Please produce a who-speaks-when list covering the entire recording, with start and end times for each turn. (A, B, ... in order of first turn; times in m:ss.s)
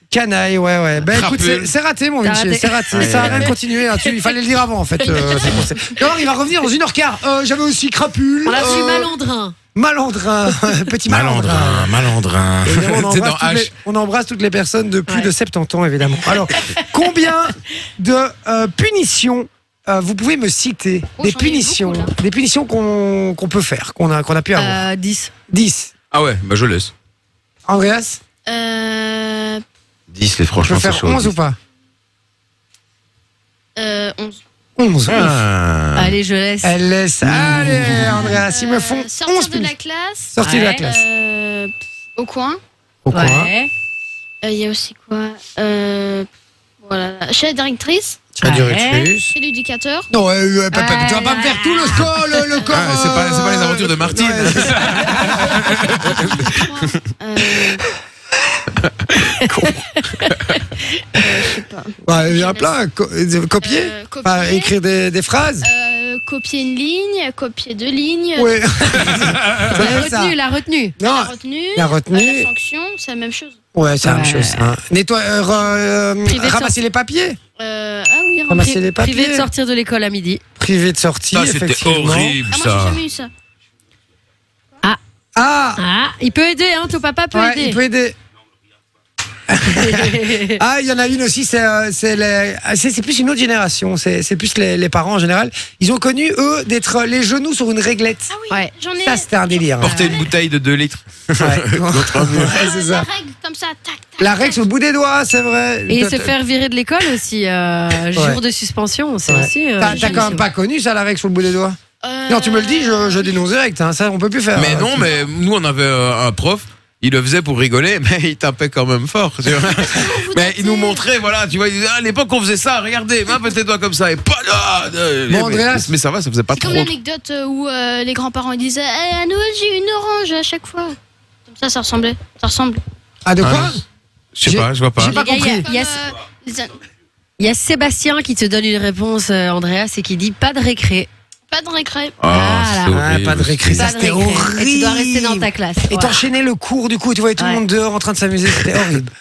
0:00.1-0:09.1 A
0:01.0-0:01.7 B
0:02.2-0:04.2 C
0:02.9-0:03.5 B
0:05.0-0:06.1 C
0:08.4-0:09.5 C
0:09.7-0:12.0 A
0:11.1-0:13.7 B
0:12.6-0:24.9 A
0:16.3-0:16.8 C
0:21.2-0:22.1 D
0:24.6-0:25.3 C
0:25.5-0:25.9 A
0:26.1-0:26.9 B
0:27.7-0:28.2 A
0:28.5-0:29.6 D
0:30.1-0:31.3 B
0:30.6-0:31.6 A
0:33.8-0:34.4 D
0:34.8-0:35.4 A
0:35.1-0:36.2 B
0:36.0-0:36.7 C
0:36.6-0:39.7 A
0:37.2-0:38.4 B
0:38.5-0:42.6 D
0:40.3-0:41.0 A
0:40.4-0:40.8 C
0:43.0-0:43.5 A
0:43.1-0:43.7 C
0:44.4-0:46.3 D
0:46.8-0:48.2 D
0:48.3-0:49.3 A
0:48.4-0:49.2 C
0:49.3-0:50.1 D
0:50.1-0:55.5 A
0:50.7-0:52.7 C
0:52.7-0:56.4 B
0:56.0-0:57.8 D
1:00.0-1:00.5 C
1:01.2-1:02.7 D
1:02.0-1:05.7 A
1:03.6-1:04.7 D
1:05.6-1:08.5 D
1:08.4-1:10.4 A
1:09.2-1:09.6 B
1:09.6-1:11.0 C
1:11.0-1:12.5 A
1:11.0-1:13.6 D
1:13.7-1:17.4 A
1:14.0-1:14.7 C
1:16.2-1:16.7 C
1:17.6-1:18.7 D
1:18.5-1:19.5 A
1:18.6-1:20.4 C
1:20.6-1:22.4 A
1:21.3-1:23.0 B
1:22.5-1:23.3 D
1:25.3-1:25.8 A
1:25.8-1:27.8 C
1:27.3-1:28.2 A
1:29.5-1:38.3 A
1:29.6-1:30.6 C
1:38.3-1:40.3 D
1:39.0-1:40.2 A
1:39.8-1:42.7 B
1:41.4-1:43.1 A
1:42.4-1:44.6 D
1:44.2-1:46.4 A
1:45.9-1:50.5 C
1:48.1-1:48.4 A
1:49.2-1:51.8 A
1:49.8-1:50.4 D
1:52.0-1:53.4 D
1:52.3-1:55.1 A
1:54.5-2:06.9 B
1:59.6-2:01.1 D
2:05.3-2:05.9 A
2:06.5-2:11.0 D
2:11.5-2:12.8 D
2:13.2-2:13.8 A
2:13.4-2:13.8 B
2:14.3-2:15.2 B
2:14.4-2:15.7 A
2:15.0-2:16.0 C
2:15.1-2:16.8 D
2:17.4-2:21.1 C
2:21.5-2:22.2 D
2:22.2-2:23.9 B
2:22.3-2:23.0 C
2:22.9-2:29.1 A
2:23.7-2:26.2 C
2:27.4-2:27.6 C